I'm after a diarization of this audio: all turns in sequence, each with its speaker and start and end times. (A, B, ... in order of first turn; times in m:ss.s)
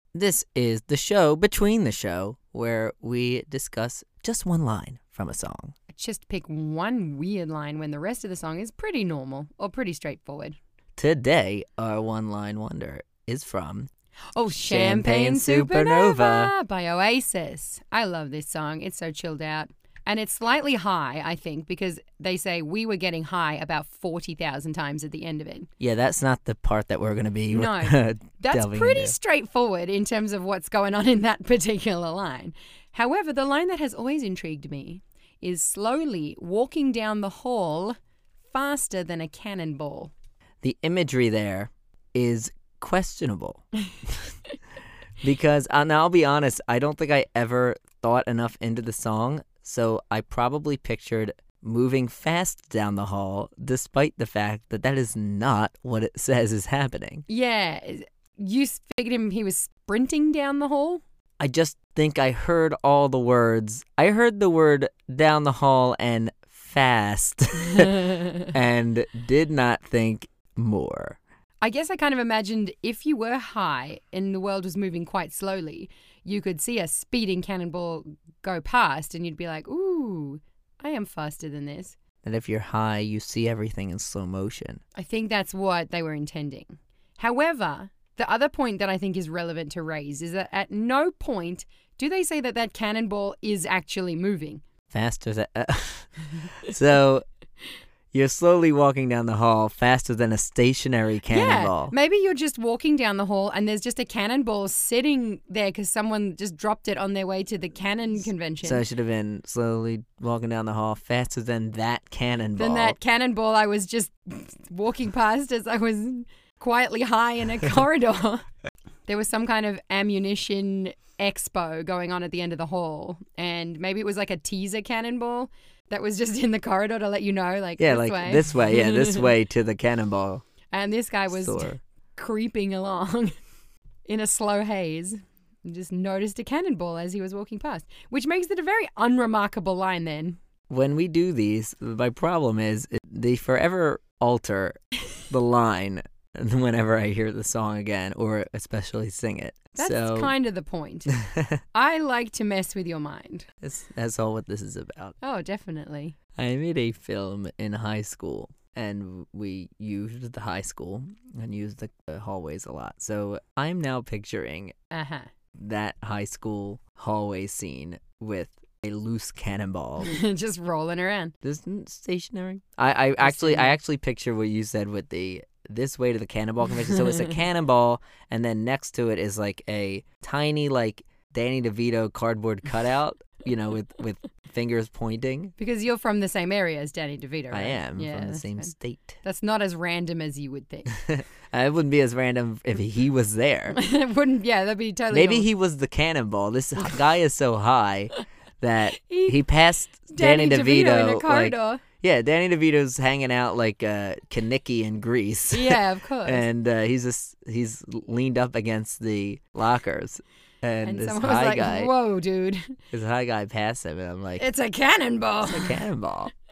0:00.1-0:05.7 A
0:05.9-0:10.6 B
0:11.0-0:13.9 A
0:14.4-0:25.7 B
0:14.6-0:16.5 A
0:25.8-0:29.2 A
0:27.5-0:38.0 B
0:38.5-0:40.1 B
0:40.6-0:44.1 A
0:45.2-0:57.3 A
0:57.3-1:01.0 B
1:01.4-1:11.2 A
1:08.0-1:08.5 B
1:11.6-1:22.0 B
1:22.2-1:24.8 A
1:25.0-1:34.6 B
1:34.9-1:36.1 A
1:36.6-1:37.2 A
1:38.1-1:42.0 A
1:41.3-1:48.9 B
1:48.6-1:53.0 A
1:52.6-1:58.4 B
1:59.1-2:09.3 B
2:07.8-2:10.4 A
2:10.7-2:13.3 B
2:11.3-2:11.8 A
2:14.1-2:20.4 B
2:20.7-2:30.3 A
2:29.8-2:31.2 B
2:31.3-2:31.6 A
2:31.7-2:33.5 B
2:33.6-2:35.2 A
2:35.2-2:36.2 B
2:36.4-2:44.7 A
2:44.9-2:45.3 B
2:45.6-2:50.1 A
2:50.0-2:51.4 B
2:51.4-3:05.5 A
2:53.2-2:53.7 B
2:56.9-2:57.3 B
3:05.6-3:08.7 B
3:07.5-3:09.2 A
3:09.2-3:10.9 B
3:11.0-3:13.8 A
3:13.7-3:15.5 B
3:15.1-3:31.9 A
3:19.0-3:19.4 B
3:20.1-3:21.8 B
3:25.5-3:26.4 B
3:30.8-3:32.8 B
3:32.9-3:34.4 A
3:34.4-3:35.8 B
3:35.4-3:36.3 A